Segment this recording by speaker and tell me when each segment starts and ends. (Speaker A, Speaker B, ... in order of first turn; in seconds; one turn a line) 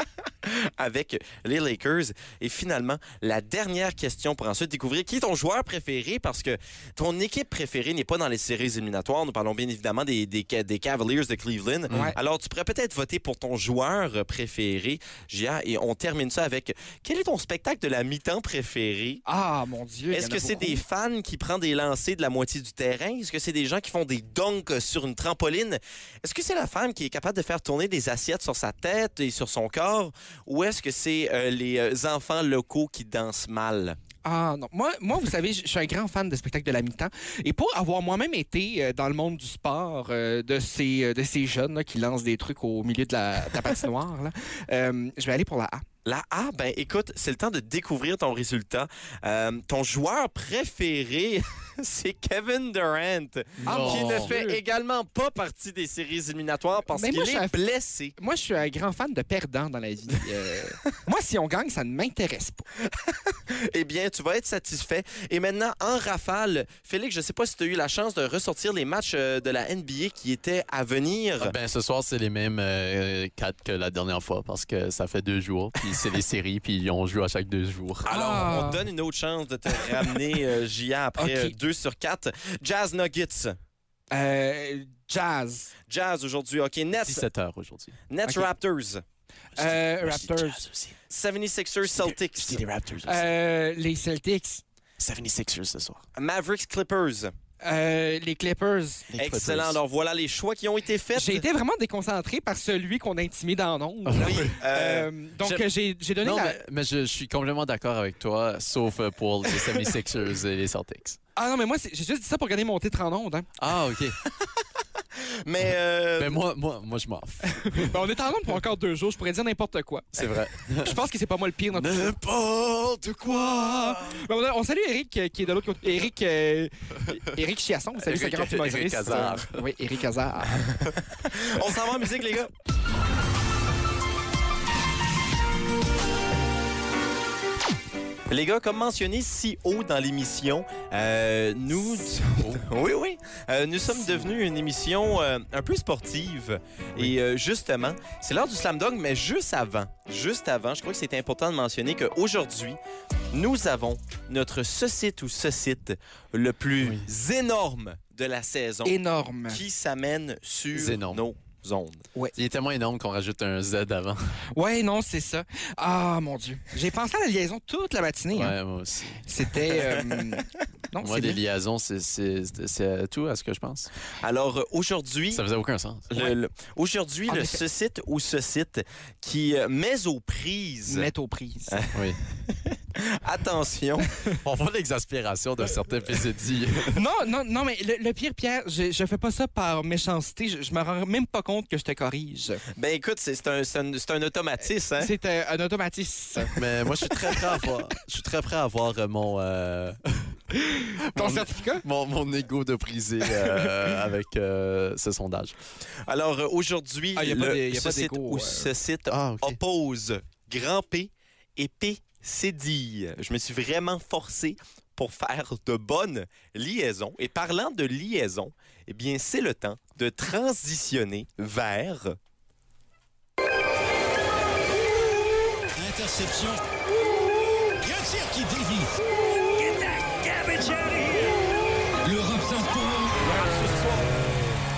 Speaker A: 0.5-19.2
Speaker B: 11.9-12.2
Speaker B: 19.3-20.8
Speaker A: 20.1-34.0
Speaker B: 34.2-45.8
Speaker A: 46.0-58.1
Speaker B: 53.6-54.6
Speaker C: 53.6-54.4
Speaker B: 56.9-57.6
Speaker B: 58.2-62.7
Speaker A: 62.9-71.5
Speaker C: 71.4-78.1
Speaker A: 78.0-83.6
Speaker B: 78.1-78.8
Speaker B: 79.7-80.2
Speaker B: 81.2-81.5
Speaker B: 84.1-85.7
Speaker A: 85.9-87.2
Speaker C: 87.0-88.0
Speaker A: 88.1-89.0
Speaker C: 89.6-91.0
Speaker B: 89.6-90.6
Speaker A: 91.1-92.6
Speaker C: 91.8-93.3
Speaker B: 93.0-94.6
Speaker C: 95.0-96.0
Speaker A: 96.2-97.3
Speaker B: 97.6-99.1
Speaker C: 99.1-99.8
Speaker A: 99.2-101.5
Speaker B: 101.2-106.6
Speaker C: 104.1-104.5
Speaker A: 104.2-105.6
Speaker C: 106.2-111.2
Speaker B: 111.4-113.5
Speaker C: 113.6-114.2
Speaker A: 115.2-116.4
Speaker C: 116.2-118.0
Speaker B: 117.5-122.2
Speaker C: 120.1-121.0
Speaker C: 121.7-124.2
Speaker B: 123.2-130.7
Speaker C: 128.0-129.6
Speaker A: 130.8-132.5
Speaker A: 138.3-152.8
Speaker A: 153.3-158.9
Speaker C: 156.8-157.1
Speaker B: 158.8-159.6
Speaker A: 159.5-162.0
Speaker C: 160.7-161.2
Speaker C: 162.4-164.3
Speaker B: 164.5-168.6
Speaker C: 168.3-169.2
Speaker B: 169.3-171.4
Speaker C: 171.0-173.9
Speaker A: 174.2-175.4
Speaker C: 175.3-176.1
Speaker A: 176.1-181.1
Speaker B: 177.3-177.6
Speaker B: 180.9-181.9
Speaker A: 181.7-184.1
Speaker C: 181.9-182.2
Speaker C: 184.4-187.0
Speaker B: 186.9-192.6
Speaker A: 192.8-195.1
Speaker B: 195.0-196.5
Speaker C: 196.6-200.4
Speaker B: 197.2-197.6
Speaker B: 200.5-201.8
Speaker C: 201.1-205.6
Speaker B: 203.4-203.7
Speaker A: 206.0-222.2
Speaker B: 207.2-208.7
Speaker C: 209.1-209.6
Speaker D: 225.9-226.6
Speaker D: 228.0-228.8
Speaker A: 229.7-231.3
Speaker D: 232.1-233.1
Speaker A: 233.1-234.2